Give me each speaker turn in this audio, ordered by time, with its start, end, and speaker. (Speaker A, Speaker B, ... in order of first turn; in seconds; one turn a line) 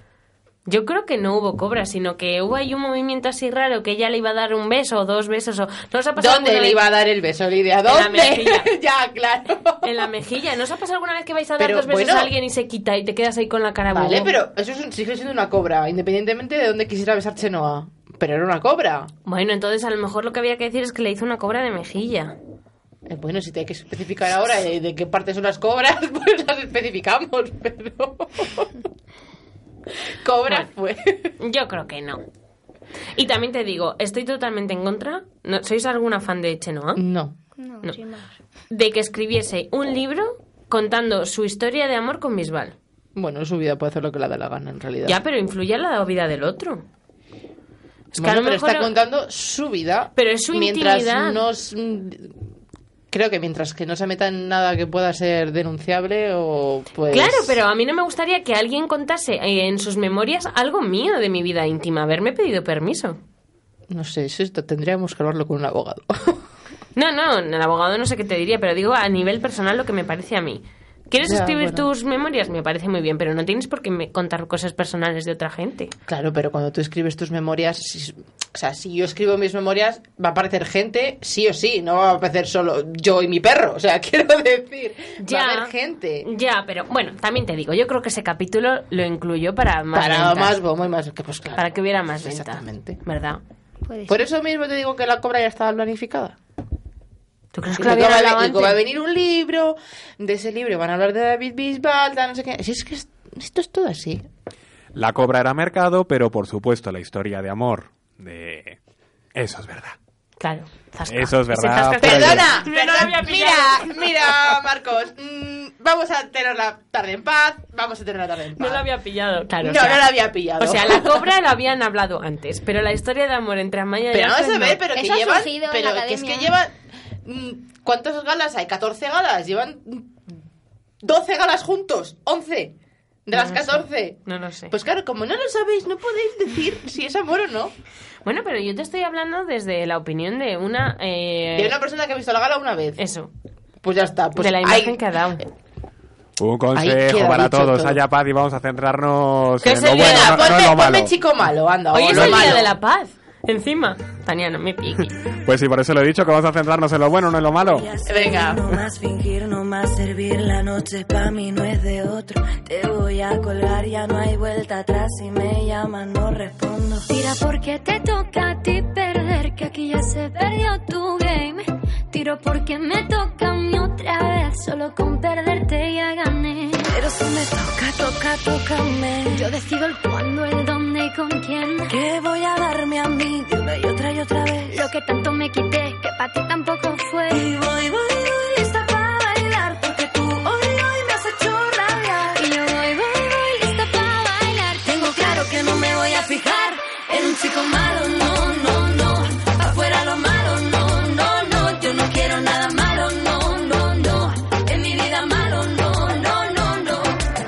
Speaker A: 0.7-6.8
Speaker B: 6.2-10.1
Speaker A: 7.8-8.7
Speaker A: 9.8-14.3
Speaker B: 11.6-12.3
Speaker B: 13.9-19.1
Speaker A: 19.2-22.3
Speaker B: 23.1-28.7
Speaker B: 30.1-31.3
Speaker A: 31.4-32.2
Speaker A: 33.1-37.0
Speaker B: 36.9-37.4
Speaker C: 37.6-38.3
Speaker A: 38.7-42.7
Speaker B: 43.1-45.2
Speaker A: 45.0-46.8
Speaker A: 48.1-48.9
Speaker B: 48.1-52.5
Speaker A: 50.1-51.4
Speaker B: 53.1-57.6
Speaker A: 57.1-63.2
Speaker B: 63.9-66.4
Speaker A: 66.9-75.9
Speaker B: 71.2-71.9
Speaker B: 76.1-86.2
Speaker A: 85.2-90.6
Speaker B: 89.9-93.0
Speaker A: 91.5-93.4
Speaker C: 93.9-94.2
Speaker B: 94.1-96.4
Speaker A: 97.5-98.8
Speaker B: 97.7-104.3
Speaker D: 104.9-108.8
Speaker D: 109.3-110.0
Speaker A: 110.4-114.1
Speaker D: 111.1-112.6
Speaker B: 112.0-118.9
Speaker A: 118.5-124.8
Speaker B: 119.6-121.3
Speaker B: 124.1-130.3
Speaker C: 124.9-126.5
Speaker B: 131.0-132.7
Speaker B: 133.2-137.7
Speaker A: 133.3-134.7
Speaker A: 138.2-141.7
Speaker B: 141.5-143.0
Speaker A: 143.0-143.3
Speaker B: 143.8-145.4
Speaker A: 144.3-145.4
Speaker D: 146.4-151.1
Speaker B: 146.7-148.0
Speaker B: 149.6-152.7
Speaker A: 149.7-150.4
Speaker A: 151.9-155.1
Speaker D: 152.1-152.6
Speaker D: 155.4-157.9
Speaker E: 157.6-167.1
Speaker B: 158.0-158.6
Speaker F: 167.1-176.9
Speaker E: 176.8-179.5
Speaker F: 179.3-181.9
Speaker E: 181.9-184.8
Speaker F: 184.7-187.5
Speaker E: 187.3-192.4
Speaker F: 192.3-195.4
Speaker E: 194.8-207.2